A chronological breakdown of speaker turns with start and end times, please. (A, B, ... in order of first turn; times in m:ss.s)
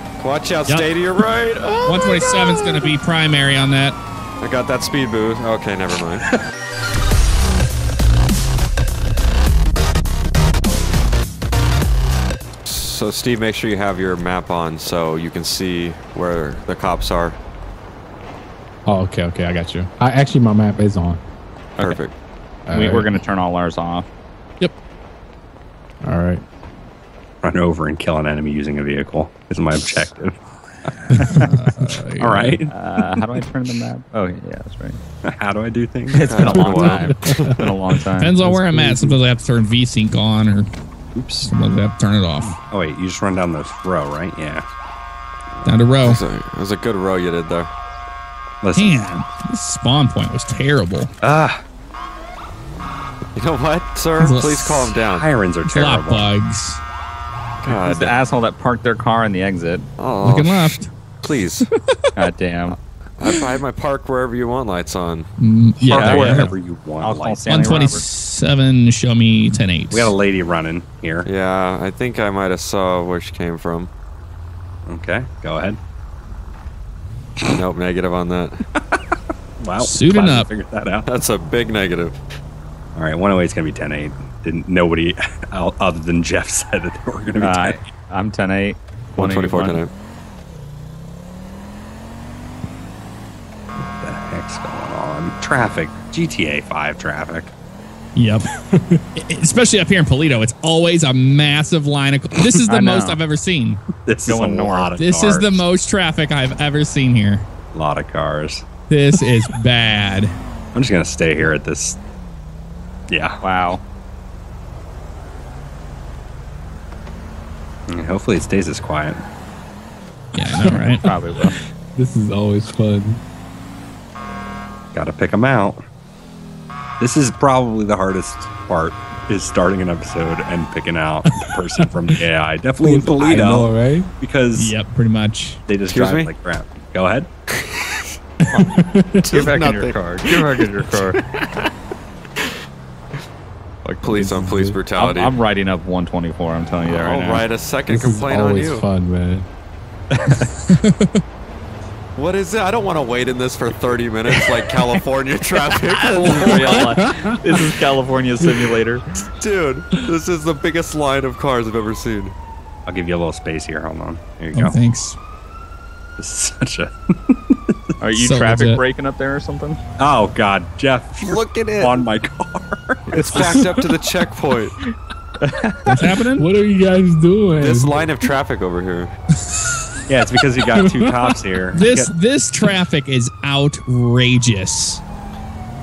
0:00.2-0:02.9 A
0:01.8-0:04.0 B
0:04.4-0:06.2 A
0:12.6-0:17.4 A
0:18.9-0:21.2 C
0:21.8-0:22.1 A
0:22.7-0:23.2 C
0:22.7-0:24.1 D
0:26.0-0:26.4 C
0:27.4-0:31.1 E
0:31.2-0:31.5 D
0:31.3-0:32.6 B
0:32.2-0:33.0 E
0:32.7-0:35.0 D
0:35.2-0:37.0 E
0:36.1-0:38.4 D
0:36.2-0:37.6 A
0:36.4-0:37.7 C
0:38.2-0:40.7 B
0:38.4-0:39.2 C
0:41.2-0:41.5 E
0:41.4-0:42.6 B
0:42.4-0:44.6 E
0:45.6-0:46.2 B
0:46.0-0:47.7 A
0:48.6-0:49.0 E
0:48.8-0:51.1 B
0:51.2-0:51.6 E
0:53.4-0:55.3 A
0:54.2-0:54.9 B
0:55.0-0:56.3 E
0:55.7-0:56.8 B
0:57.6-0:58.2 A
0:57.7-0:59.9 D
1:00.0-1:01.7 A
1:00.2-1:00.9 B
1:01.8-1:02.1 B
1:02.2-1:02.8 D
1:03.2-1:05.3 A
1:05.4-1:06.5 B
1:05.8-1:07.9 E
1:05.9-1:06.2 A
1:06.0-1:08.0 D
1:07.5-1:10.1 B
1:09.9-1:11.3 E
1:11.2-1:13.9 A
1:14.9-1:15.8 E
1:17.5-1:18.6 A
1:18.8-1:21.1 E
1:19.8-1:20.5 B
1:21.1-1:22.2 A
1:23.0-1:27.8 E
1:27.4-1:29.8 D
1:29.2-1:29.9 A
1:33.8-1:37.5 E
1:38.2-1:38.5 B
1:39.2-1:43.8 B
1:42.7-1:43.2 D
1:44.1-1:45.7 E
1:44.3-1:44.9 D
1:45.0-1:47.4 B
1:47.7-1:48.6 E
1:48.9-1:50.3 B
1:50.7-1:52.0 E
1:53.1-1:53.4 E
1:53.4-1:53.8 D
1:57.9-1:59.2 E
2:00.4-2:01.0 B
2:00.4-2:03.2 C
2:01.0-2:01.6 D
2:04.9-2:05.8 E
2:07.0-2:14.8 E
2:12.8-2:14.1 C
2:14.6-2:15.6 B
2:15.7-2:17.3 E
2:15.9-2:16.3 A
2:17.6-2:18.0 A
2:18.6-2:19.4 C
2:19.3-2:20.5 A
2:19.3-2:21.2 D
2:23.8-2:25.3 A
2:24.0-2:24.8 C
2:25.0-2:27.4 D
2:26.8-2:28.8 A
2:27.9-2:29.5 C
2:30.2-2:30.5 D
2:30.7-2:31.2 B
2:32.2-2:37.0 A
2:35.9-2:39.2 D
2:36.4-2:37.4 C
2:39.4-2:42.4 A
2:42.9-2:44.8 E
2:44.6-2:45.2 B
2:46.2-2:48.0 E
2:48.0-2:49.8 D
2:48.2-2:48.8 B
2:50.0-2:53.0 E
2:51.2-2:52.0 A
2:53.1-2:54.8 A
2:53.2-2:53.7 D
2:53.4-2:53.9 C
2:55.4-2:56.1 D
2:55.9-2:56.5 B
2:56.3-2:58.3 C
2:57.6-2:59.1 A
3:00.1-3:02.1 E
3:00.7-3:01.3 C
3:01.8-3:05.0 B